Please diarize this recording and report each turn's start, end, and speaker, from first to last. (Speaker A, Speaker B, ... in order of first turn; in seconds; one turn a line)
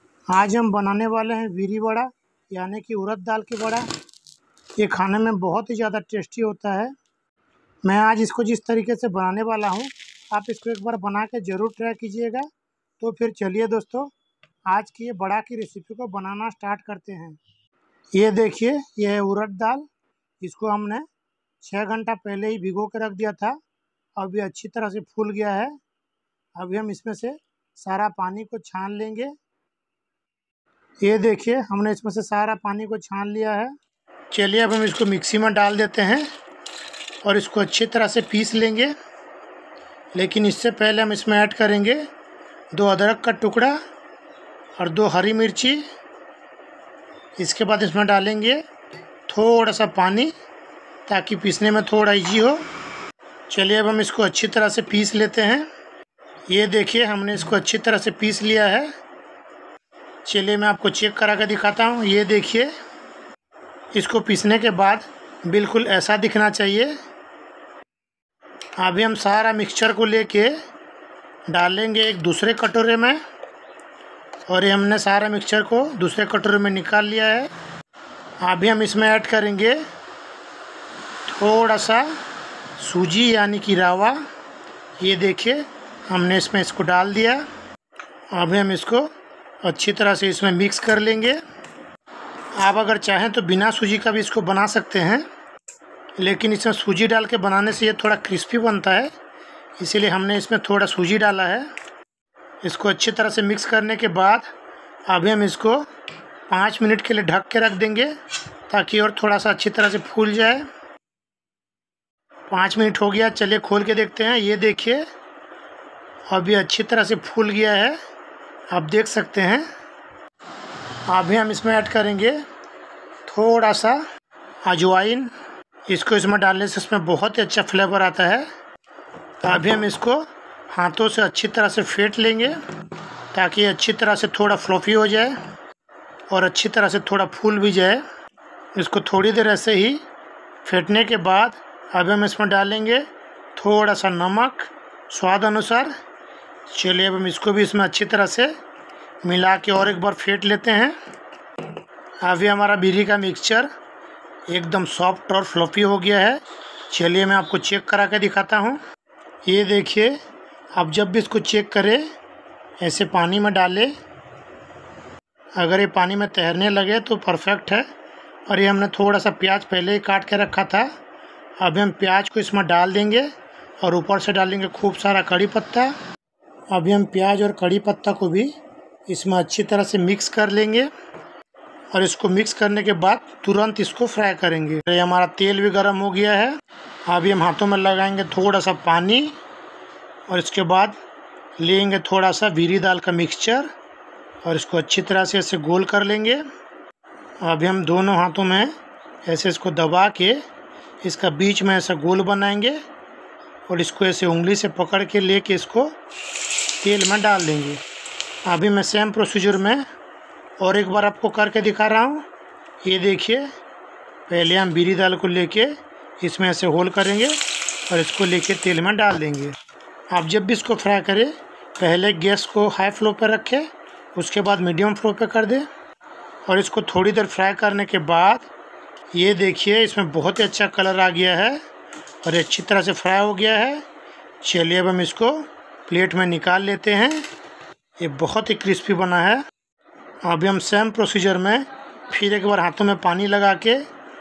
Speaker A: 0.3-3.9
Speaker A: 4.8-6.9
Speaker A: 7.8-12.5
Speaker A: 13.0-14.1
Speaker A: 14.7-17.4
Speaker A: 18.1-19.9
Speaker A: 20.4-21.0
Speaker A: 21.6-23.6
Speaker A: 24.2-25.7
Speaker A: 26.6-29.3
Speaker A: 31.0-33.7
Speaker A: 34.3-36.3
Speaker A: 37.2-38.9
Speaker A: 40.1-42.0
Speaker A: 42.7-43.8
Speaker A: 44.8-45.8
Speaker A: 47.4-48.6
Speaker A: 49.3-50.3
Speaker A: 51.1-52.6
Speaker A: 53.5-55.7
Speaker A: 56.5-58.9
Speaker A: 60.2-62.7
Speaker A: 63.9-66.9
Speaker A: 68.8-70.5
Speaker A: 71.5-73.2
Speaker A: 74.5-77.5
Speaker A: 78.4-79.8
Speaker A: 81.3-82.1
Speaker A: 82.8-84.2
Speaker A: 85.0-87.4
Speaker A: 88.3-89.1
Speaker A: 89.6-91.4
Speaker A: 92.6-95.2
Speaker A: 96.2-99.1
Speaker A: 99.8-101.7
Speaker A: 102.6-104.5
Speaker A: 105.1-105.9
Speaker A: 106.5-108.1
Speaker A: 108.7-110.7
Speaker A: 112.5-115.0
Speaker A: 116.3-118.0
Speaker A: 118.7-119.7
Speaker A: 121.1-122.4
Speaker A: 123.2-124.0
Speaker A: 124.6-125.3
Speaker A: 125.9-128.4
Speaker A: 129.4-132.6
Speaker A: 133.3-135.3
Speaker A: 136.3-138.0
Speaker A: 138.8-140.0
Speaker A: 140.6-145.9
Speaker A: 146.7-148.5
Speaker A: 149.2-150.9
Speaker A: 152.2-153.7
Speaker A: 154.5-158.8
Speaker A: 159.4-160.1
Speaker A: 160.7-162.1
Speaker A: 162.8-163.9
Speaker A: 165.6-167.8
Speaker A: 168.5-170.9
Speaker A: 171.6-173.3
Speaker A: 173.8-175.9
Speaker A: 176.7-178.5
Speaker A: 179.1-180.9
Speaker A: 181.9-189.3
Speaker A: 190.3-191.0
Speaker A: 191.6-193.7
Speaker A: 194.4-196.4
Speaker A: 197.4-198.7
Speaker A: 199.2-200.4
Speaker A: 201.0-202.8
Speaker A: 203.7-205.9
Speaker A: 206.8-207.8
Speaker A: 208.4-209.8
Speaker A: 210.6-212.2
Speaker A: 212.8-213.5
Speaker A: 214.3-219.6
Speaker A: 220.1-225.7
Speaker A: 226.4-228.5
Speaker A: 229.1-231.6
Speaker A: 232.2-233.8
Speaker A: 234.4-237.2
Speaker A: 238.0-239.4
Speaker A: 240.2-243.8